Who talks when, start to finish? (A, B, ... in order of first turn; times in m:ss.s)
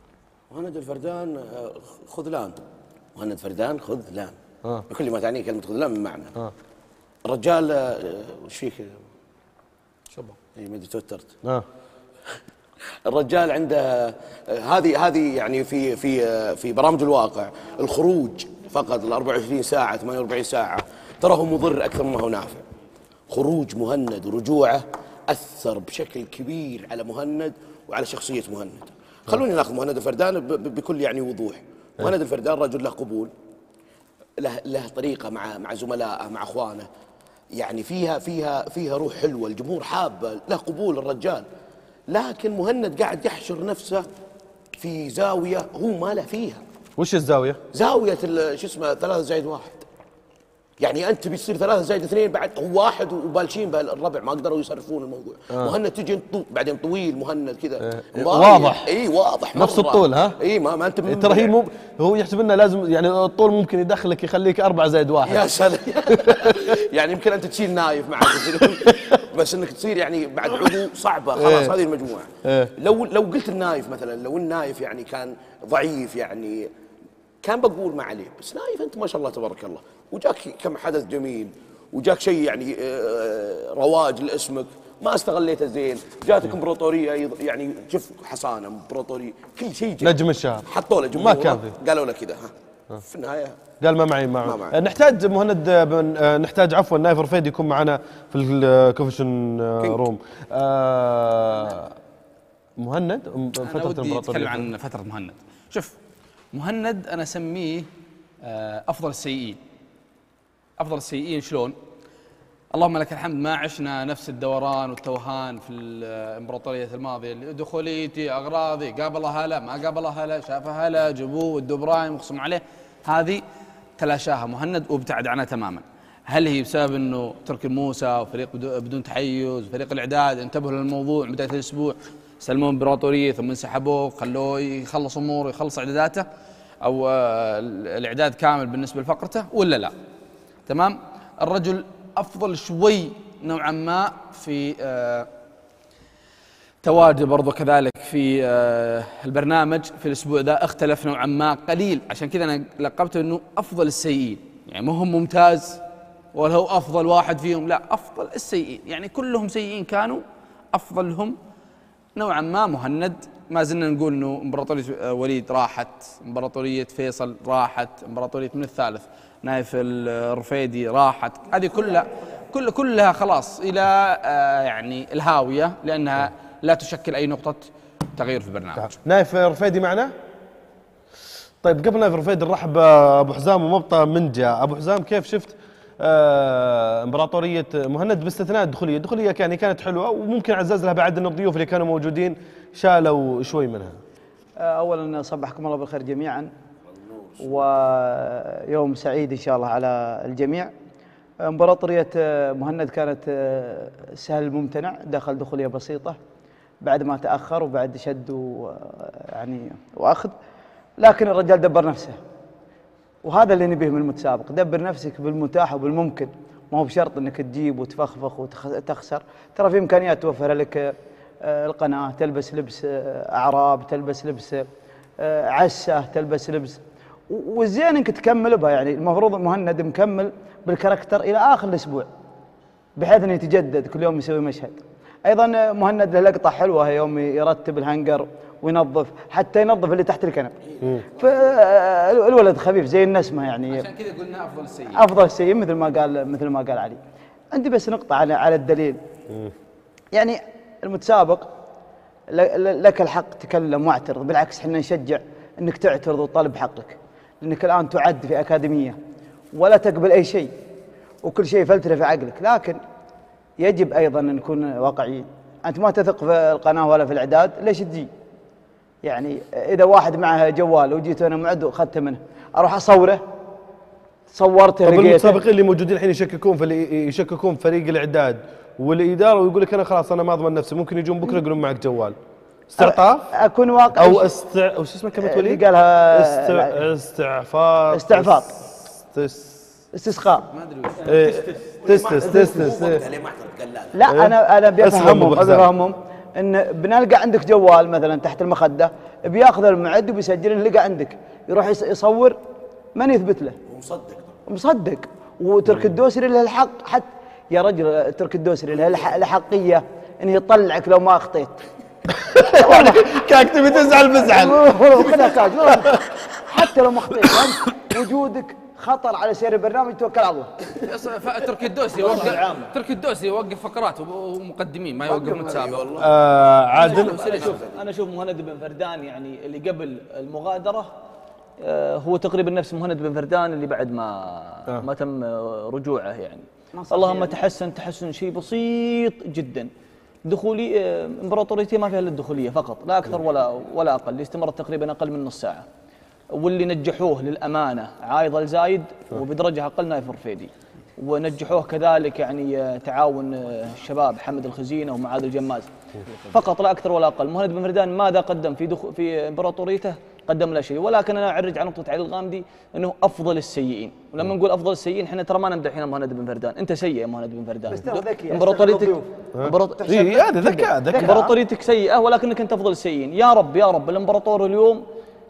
0:00.5-0:02.6 A
0:03.2-0:04.4 A
0:04.9-0:06.4 A
0:07.2-0:09.0 A
0:10.5-0:11.4 A
0:13.0-0:22.6 A
0:23.3-0:33.3 A
0:34.4-0:36.9 A
0:37.5-0:41.5 A
0:42.1-0:44.1 A
0:44.8-0:46.6 A
0:47.0-0:47.6 B
0:47.7-0:49.8 A
0:50.8-1:01.6 A
0:57.8-0:58.9 B
0:59.5-1:00.4 B
1:01.1-1:05.4 B
1:05.3-1:16.7 A
1:06.2-1:06.6 B
1:08.5-1:09.1 B
1:11.4-1:11.8 B
1:12.4-1:12.7 B
1:17.4-1:33.6 A
1:30.0-1:31.7 B
1:33.8-1:42.0 B
1:34.4-1:34.8 A
1:42.8-1:44.7 B
1:43.6-1:46.0 C
1:46.5-1:47.9 C
1:48.4-1:49.6 C
1:50.8-1:51.8 C
1:52.7-2:03.4 C
2:04.0-2:16.3 C
2:16.8-2:19.9 C
2:20.7-2:25.3 C
2:26.8-2:35.8 C
2:36.3-2:41.4 C
2:42.2-2:58.9 C
2:58.8-3:00.1 B
3:01.6-3:14.0 B
3:14.6-3:16.5 D
3:17.4-3:20.7 D
3:21.4-3:26.2 D
3:26.8-3:30.3 D
3:31.0-3:32.2 D
3:33.2-3:44.7 D
3:45.2-3:52.1 D
3:53.0-4:03.9 D
4:00.8-4:01.1 B
4:03.7-4:05.0 C
4:04.9-4:07.0 D
4:07.5-4:09.0 D
4:10.1-4:11.5 D
4:12.3-4:19.0 D
4:19.5-4:20.5 D
4:21.2-4:22.8 D
4:23.6-4:28.1 D
4:29.0-4:33.2 D
4:34.3-4:35.4 D
4:34.8-4:42.2 B
4:42.7-4:43.3 B
4:42.8-4:44.3 D
4:43.9-4:49.6 B
4:45.2-4:46.8 D
4:47.9-4:48.6 D
4:49.9-4:50.5 D
4:50.5-4:51.2 C
4:51.0-4:53.0 B
4:51.5-4:54.0 A
4:53.9-5:02.4 D
4:54.1-4:55.7 B
5:03.0-5:03.6 D
5:03.7-5:04.3 A
5:04.5-5:11.6 D
5:12.2-5:16.2 B
5:12.6-5:13.1 D
5:13.8-5:20.5 D
5:20.7-5:25.9 C
5:22.0-5:22.7 E
5:22.1-5:22.4 D
5:25.1-5:26.1 A
5:26.0-5:27.2 B
5:26.8-5:31.0 E
5:26.8-5:27.5 C
5:26.8-5:27.8 A
5:31.6-5:39.7 E
5:36.7-5:37.4 D
5:40.3-5:45.6 E
5:46.3-6:14.8 E
6:07.7-6:09.0 D
6:09.3-6:11.3 B
6:09.7-6:10.3 D
6:10.9-6:11.3 D